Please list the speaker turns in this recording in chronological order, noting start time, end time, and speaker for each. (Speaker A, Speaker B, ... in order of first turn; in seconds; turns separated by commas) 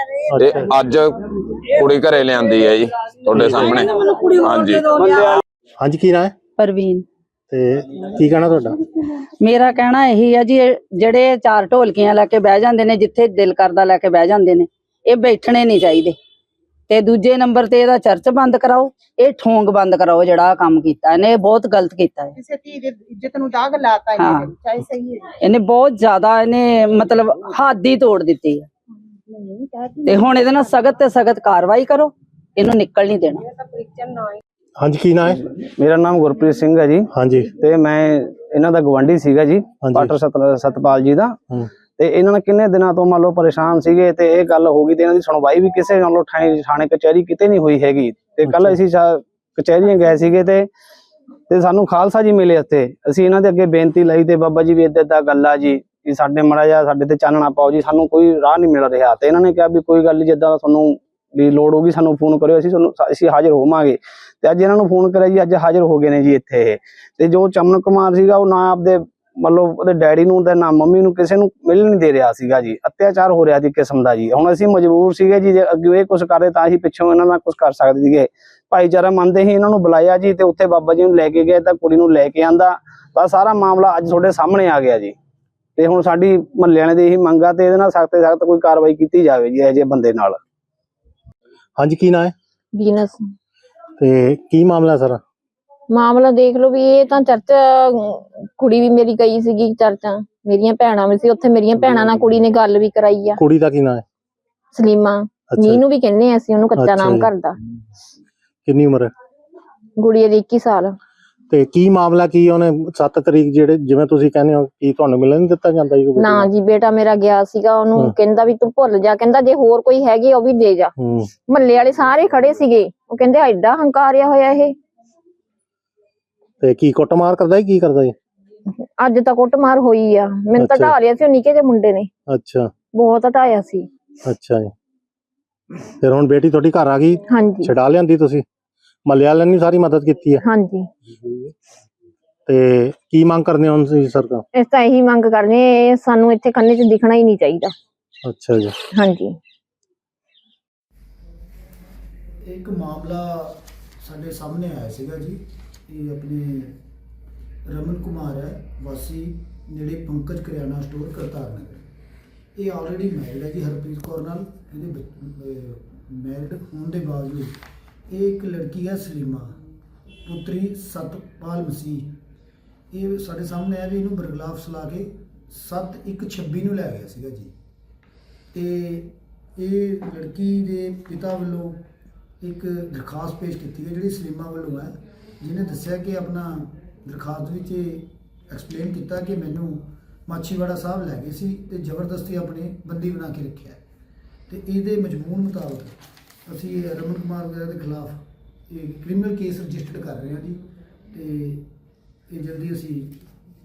Speaker A: 0.3-0.7, Speaker B: 0.4-1.2, Speaker B: 1.7-5.4, Speaker A: 3.3-3.7, Speaker C: 3.6-5.2, Speaker A: 5.8-6.3, Speaker C: 6.6-7.0, Speaker A: 7.5-8.8, Speaker C: 9.4-16.2, Speaker C: 16.9-22.3, Speaker D: 22.4-25.2, Speaker C: 24.2-24.5, Speaker C: 25.4-28.7, Speaker C: 30.1-33.4, Speaker A: 34.8-35.4, Speaker E: 35.5-41.4, Speaker A: 37.1-37.5, Speaker A: 39.8-40.1, Speaker E: 42.0-50.7, Speaker A: 48.5-48.8, Speaker E: 51.5-85.2, Speaker E: 85.8-90.4, Speaker A: 91.8-92.3, Speaker F: 92.8-93.2, Speaker A: 94.0-95.2, Speaker F: 95.9-103.4, Speaker A: 101.8-102.3, Speaker A: 103.4-104.0, Speaker F: 104.8-107.5, Speaker A: 105.5-105.8, Speaker A: 106.8-107.3, Speaker A: 108.7-109.1, Speaker F: 110.0-110.9, Speaker A: 111.5-116.5, Speaker F: 116.2-120.9, Speaker A: 121.0-121.3, Speaker F: 121.5-124.7, Speaker A: 126.6-128.2, Speaker F: 129.0-132.1, Speaker A: 130.6-131.0, Speaker A: 132.3-132.7, Speaker F: 132.9-133.8, Speaker A: 134.3-134.7, Speaker A: 136.0-138.4, Speaker F: 137.3-137.7, Speaker A: 139.1-140.4, Speaker F: 140.4-140.9, Speaker A: 142.5-144.4, Speaker F: 144.5-147.7, Speaker A: 148.2-148.8, Speaker F: 149.0-149.3, Speaker G: 152.4-156.8, Speaker G: 157.7-161.9, Speaker G: 162.6-167.6, Speaker G: 168.1-169.5, Speaker G: 170.3-172.1, Speaker G: 172.9-177.5, Speaker G: 178.5-181.8, Speaker G: 182.4-193.8, Speaker G: 194.5-200.6, Speaker G: 201.1-201.7, Speaker G: 202.3-203.2